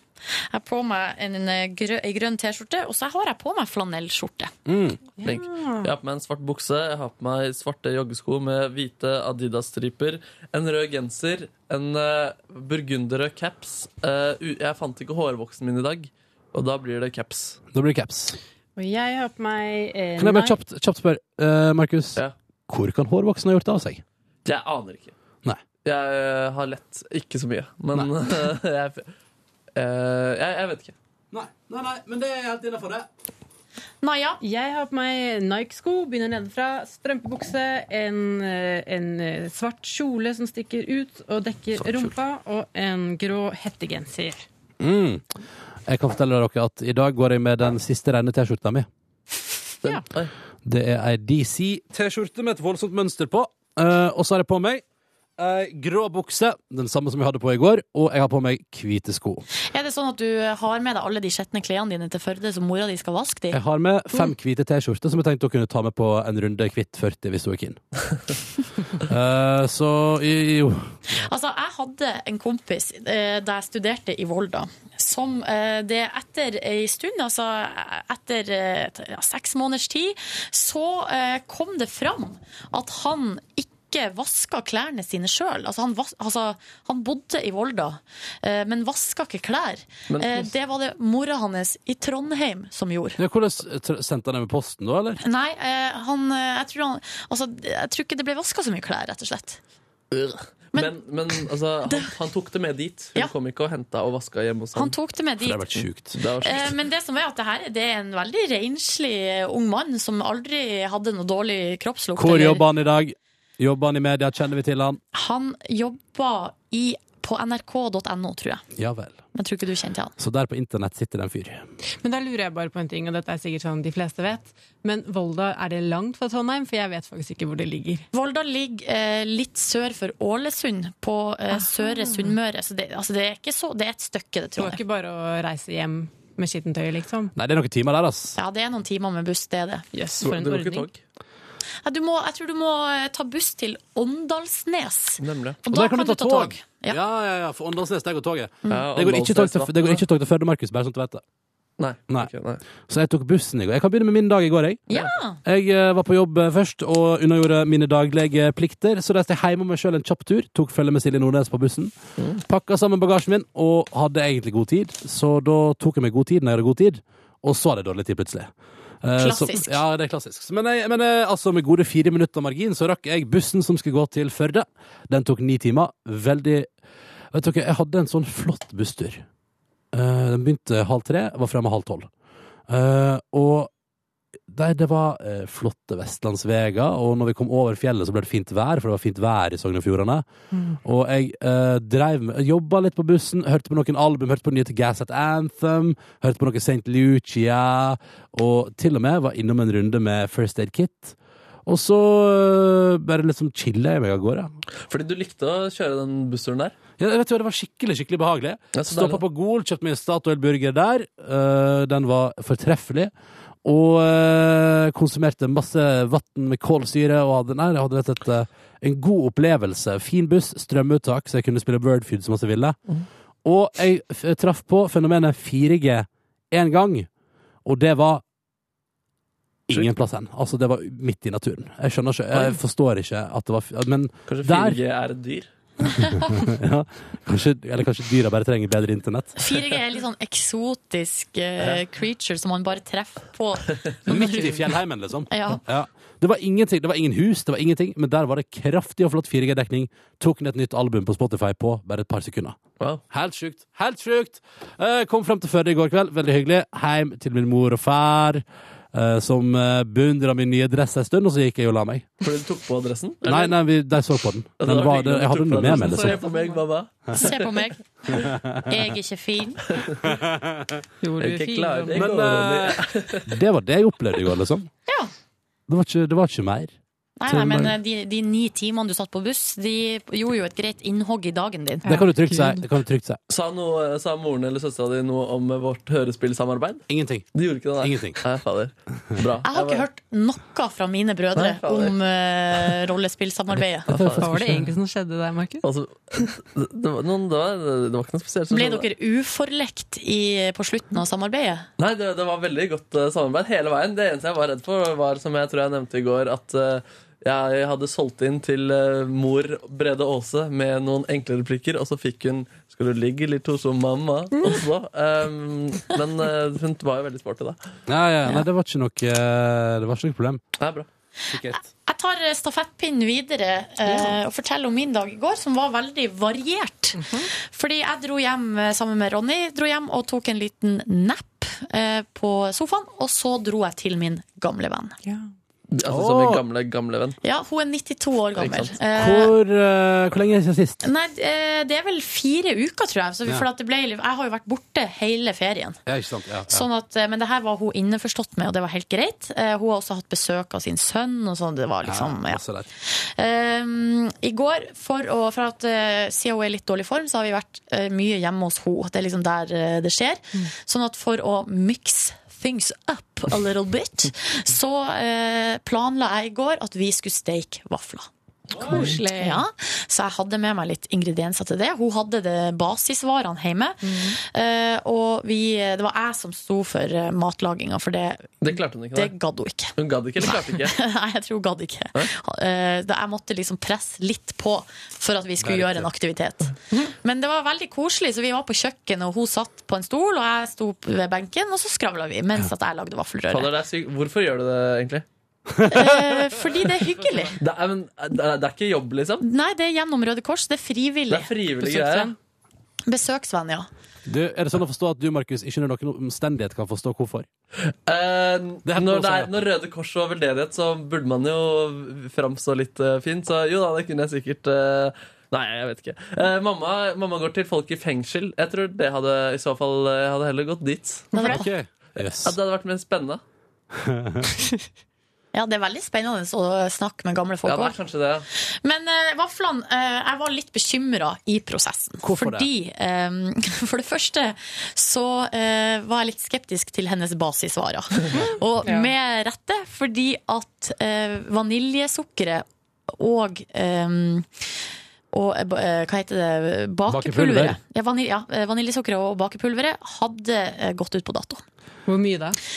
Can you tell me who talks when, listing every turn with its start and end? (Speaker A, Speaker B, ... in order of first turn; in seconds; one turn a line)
Speaker A: 0.5-4.5
Speaker B: 4.7-5.0
Speaker C: 5.2-5.9
Speaker D: 5.2-17.6
Speaker B: 17.7-18.4
Speaker C: 18.8-20.6
Speaker B: 20.2-24.0
Speaker D: 24.4-25.1
Speaker D: 25.8-29.1
Speaker D: 29.8-30.9
Speaker B: 31.3-33.1
Speaker A: 34.0-34.4
Speaker C: 34.4-44.5
Speaker B: 44.8-45.3
Speaker B: 45.9-48.9
Speaker D: 49.8-50.3
Speaker B: 50.6-54.8
Speaker B: 55.4-59.5
Speaker A: 59.7-63.6
Speaker B: 63.5-67.8
Speaker B: 69.0-70.9
Speaker A: 71.1-93.2
Speaker D: 90.1-90.5
Speaker B: 93.2-95.2
Speaker A: 95.2-99.6
Speaker D: 100.1-105.0
Speaker A: 104.8-105.8
Speaker B: 105.4-106.2
Speaker D: 106.2-106.8
Speaker A: 106.4-112.6
Speaker B: 112.2-115.0
Speaker A: 115.1-118.6
Speaker B: 118.8-119.2
Speaker A: 119.3-120.2
Speaker B: 120.2-121.7
Speaker C: 122.0-128.1
Speaker A: 128.1-134.8
Speaker C: 131.6-132.3
Speaker C: 134.6-137.3
Speaker B: 137.4-138.4
Speaker A: 138.4-139.8
Speaker C: 139.9-140.9
Speaker D: 140.2-141.0
Speaker A: 141.8-147.0
Speaker D: 145.2-145.6
Speaker B: 145.7-151.2
Speaker D: 148.7-150.0
Speaker D: 151.8-152.6
Speaker B: 152.9-154.9
Speaker A: 154.9-155.4
Speaker B: 155.4-161.9
Speaker B: 162.4-168.5
Speaker B: 169.0-176.7
Speaker A: 169.2-169.8
Speaker B: 177.3-179.2
Speaker B: 179.9-182.1
Speaker B: 182.7-183.7
Speaker B: 184.5-190.2
Speaker B: 190.8-204.5
Speaker D: 204.9-206.8
Speaker B: 207.0-213.1
Speaker D: 208.7-209.2
Speaker B: 213.6-222.8
Speaker B: 223.4-227.1
Speaker B: 227.7-228.2
Speaker B: 229.7-234.8
Speaker D: 232.3-232.6
Speaker D: 234.3-235.5
Speaker A: 236.0-236.3
Speaker B: 236.1-239.3
Speaker A: 239.4-244.6
Speaker B: 244.1-252.6
Speaker A: 245.3-245.6
Speaker B: 253.1-262.1
Speaker D: 262.2-263.5
Speaker B: 263.2-266.2
Speaker D: 264.6-267.3
Speaker A: 267.1-267.8
Speaker B: 268.1-268.7
Speaker A: 268.7-269.6
Speaker D: 269.7-270.1
Speaker B: 270.1-270.8
Speaker C: 271.0-272.1
Speaker D: 271.2-273.3
Speaker B: 271.9-274.7
Speaker B: 275.7-276.7
Speaker A: 277.2-282.0
Speaker B: 277.3-277.8
Speaker C: 281.8-282.6
Speaker B: 281.9-283.2
Speaker D: 283.3-289.9
Speaker B: 286.9-288.2
Speaker A: 289.5-293.9
Speaker D: 291.4-292.0
Speaker D: 293.9-294.3
Speaker B: 294.0-294.6
Speaker C: 294.2-295.7
Speaker D: 295.6-298.9
Speaker A: 298.5-301.7
Speaker D: 301.8-317.6
Speaker B: 317.9-320.4
Speaker D: 320.6-320.9
Speaker B: 321.3-321.6
Speaker A: 321.5-334.9
Speaker C: 323.9-324.1
Speaker C: 327.0-327.3
Speaker D: 335.7-337.2
Speaker B: 335.9-336.4
Speaker A: 337.2-339.3
Speaker D: 338.4-338.7
Speaker B: 338.9-340.8
Speaker A: 340.8-345.8
Speaker B: 345.9-346.7
Speaker A: 346.5-368.1
Speaker B: 351.8-352.7
Speaker B: 368.6-368.9
Speaker C: 368.7-369.4
Speaker A: 368.8-379.8
Speaker C: 373.8-374.2
Speaker D: 378.4-379.1
Speaker D: 379.8-380.8
Speaker A: 380.5-393.5
Speaker B: 385.4-385.9
Speaker D: 393.3-395.1
Speaker B: 395.6-396.2
Speaker A: 395.7-397.4
Speaker D: 397.4-399.2
Speaker A: 399.2-402.1
Speaker D: 401.1-402.1
Speaker C: 401.7-402.1
Speaker A: 402.9-403.7
Speaker B: 404.1-407.3
Speaker D: 407.9-421.1
Speaker B: 408.7-409.3
Speaker A: 421.1-421.4
Speaker B: 421.3-422.4
Speaker D: 422.0-423.2
Speaker B: 423.7-424.3
Speaker A: 425.3-427.8
Speaker D: 427.4-428.3
Speaker A: 428.4-444.3
Speaker B: 432.0-432.5
Speaker C: 438.2-438.9
Speaker A: 445.1-451.4
Speaker B: 446.9-447.6
Speaker C: 451.9-452.4